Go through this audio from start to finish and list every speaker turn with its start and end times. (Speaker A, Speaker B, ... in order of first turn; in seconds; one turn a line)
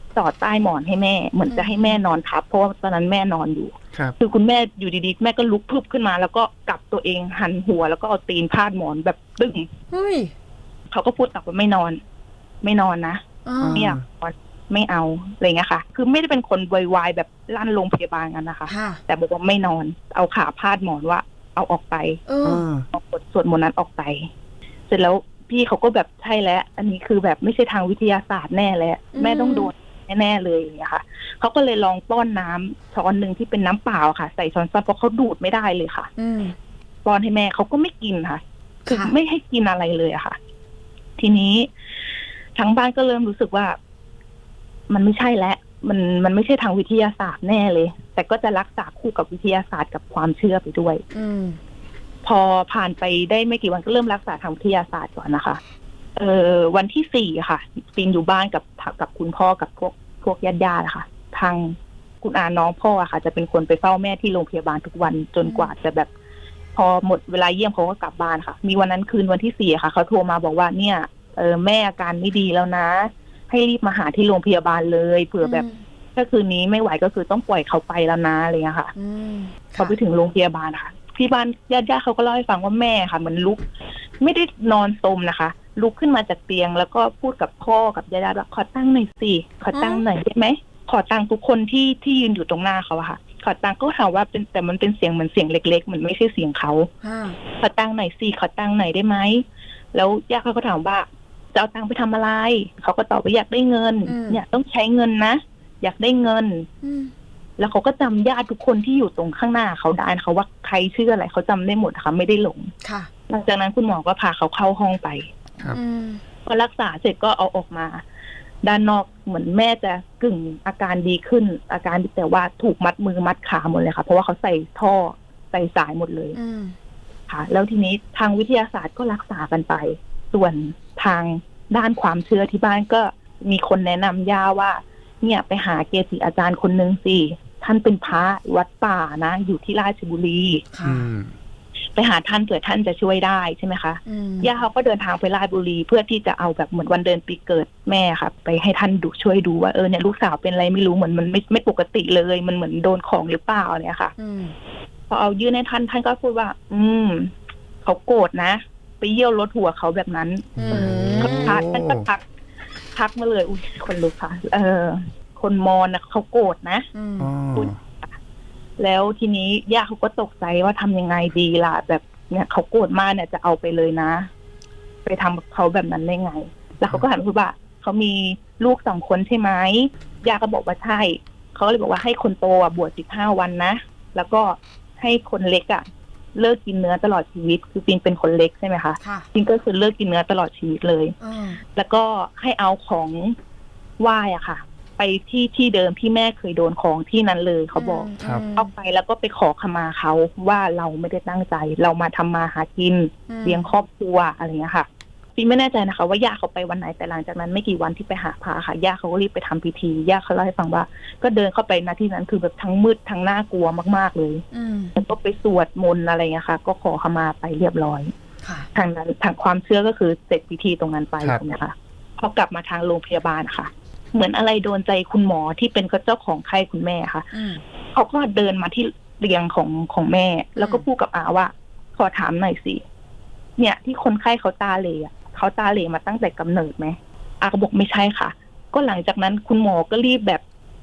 Speaker A: 0.1-9.7
Speaker B: 1.5-1.9
Speaker B: 9.9-10.3
Speaker A: 10.9-12.0
Speaker A: 12.6-22.2
Speaker B: 13.4-13.9
Speaker C: 13.6-14.0
Speaker B: 18.7-19.0
Speaker B: 22.3-22.6
Speaker C: 22.4-22.9
Speaker A: 22.9-24.3
Speaker A: 24.9-36.1
Speaker B: 29.1-29.7
Speaker B: 36.2-36.5
Speaker A: 37.0-40.4
Speaker B: 38.9-39.1
Speaker A: 41.2-41.7
Speaker A: 42.6-43.8
Speaker A: 44.9-51.0
Speaker B: 51.1-51.6
Speaker A: 52.2-55.6
Speaker A: 56.1-66.1
Speaker B: 65.4-65.7
Speaker A: 66.8-75.6
Speaker B: 75.4-75.8
Speaker A: 76.2-78.9
Speaker B: 79.0-80.0
Speaker A: 79.8-83.6
Speaker A: 84.2-96.9
Speaker B: 89.7-90.0
Speaker B: 97.0-97.4
Speaker A: 97.5-106.7
Speaker B: 104.1-104.4
Speaker B: 106.8-107.1
Speaker A: 107.6-112.7
Speaker B: 112.8-113.1
Speaker A: 113.3-115.3
Speaker B: 115.7-116.2
Speaker A: 116.5-118.0
Speaker A: 118.6-126.4
Speaker B: 126.3-126.8
Speaker A: 127.3-140.6
Speaker B: 140.7-141.1
Speaker C: 140.8-141.3
Speaker A: 142.0-154.1
Speaker B: 144.1-144.5
Speaker B: 154.2-154.5
Speaker A: 155.1-157.3
Speaker A: 157.8-162.2
Speaker C: 160.6-162.1
Speaker B: 160.6-161.6
Speaker A: 162.9-166.9
Speaker B: 166.9-167.3
Speaker C: 167.2-167.8
Speaker A: 167.6-168.1
Speaker A: 168.8-174.3
Speaker A: 175.1-191.2
Speaker B: 189.0-189.3
Speaker B: 191.2-191.6
Speaker A: 191.8-193.4
Speaker A: 194.0-214.4
Speaker B: 197.8-198.7
Speaker B: 203.3-203.7
Speaker B: 214.5-214.9
Speaker A: 215.0-218.1
Speaker B: 218.4-218.7
Speaker A: 218.8-227.3
Speaker B: 227.3-227.6
Speaker A: 227.9-232.8
Speaker B: 230.6-230.8
Speaker A: 233.6-240.4